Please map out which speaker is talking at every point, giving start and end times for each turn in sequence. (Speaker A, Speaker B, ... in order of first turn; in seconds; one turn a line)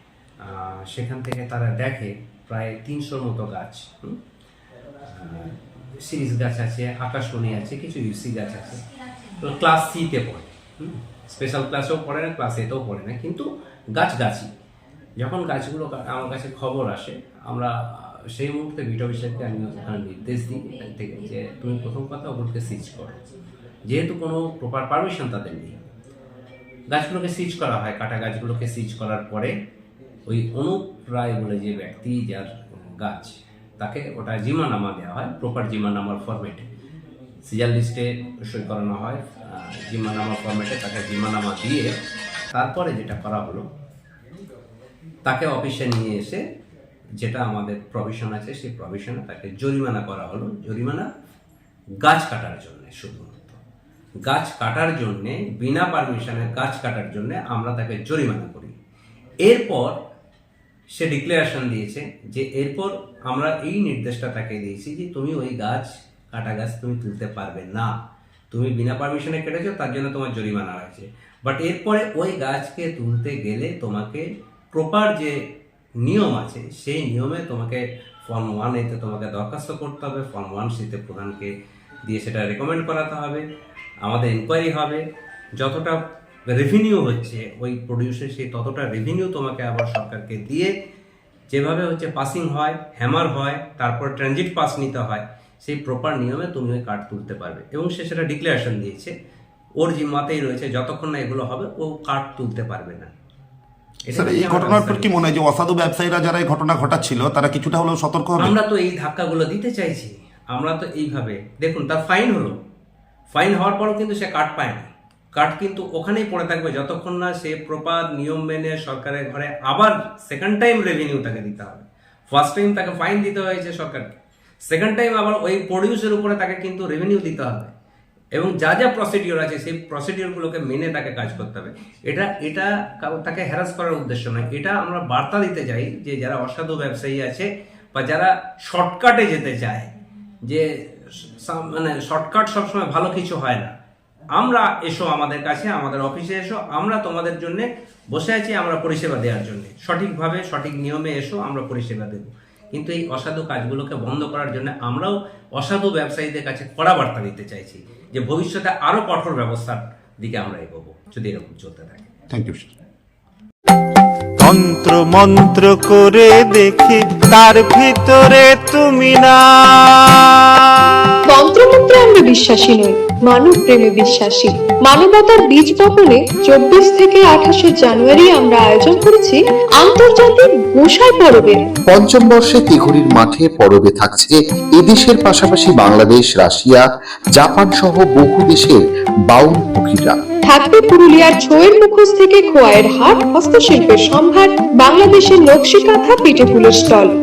Speaker A: 0.5-4.2
Speaker A: 5.1-8.8
Speaker A: 9.4-14.5
Speaker A: 15.2-17.7
Speaker A: 18.3-23.1
Speaker A: 23.9-25.7
Speaker A: 26.9-29.5
Speaker A: 30.3-32.5
Speaker A: 33.0-36.6
Speaker A: 37.5-41.9
Speaker A: 42.5-43.6
Speaker A: 45.2-46.4
Speaker A: 47.2-51.0
Speaker A: 52.0-53.6
Speaker A: 54.3-58.7
Speaker A: 59.5-60.0
Speaker A: 61.0-67.9
Speaker A: 68.5-75.3
Speaker A: 76.0-81.5
Speaker A: 82.1-83.4
Speaker A: 84.0-85.0
Speaker A: 85.6-90.7
Speaker A: 91.5-99.1
Speaker A: 99.8-103.1
Speaker A: 104.1-105.1
Speaker B: 104.1-108.5
Speaker A: 108.4-112.6
Speaker A: 113.3-124.1
Speaker A: 124.7-127.7
Speaker A: 128.3-139.9
Speaker A: 140.5-143.7
Speaker A: 144.4-162.0
Speaker B: 162.3-162.7
Speaker C: 164.4-169.3
Speaker D: 171.3-181.6
Speaker E: 181.9-186.8
Speaker E: 187.3-190.1
Speaker D: 190.5-197.1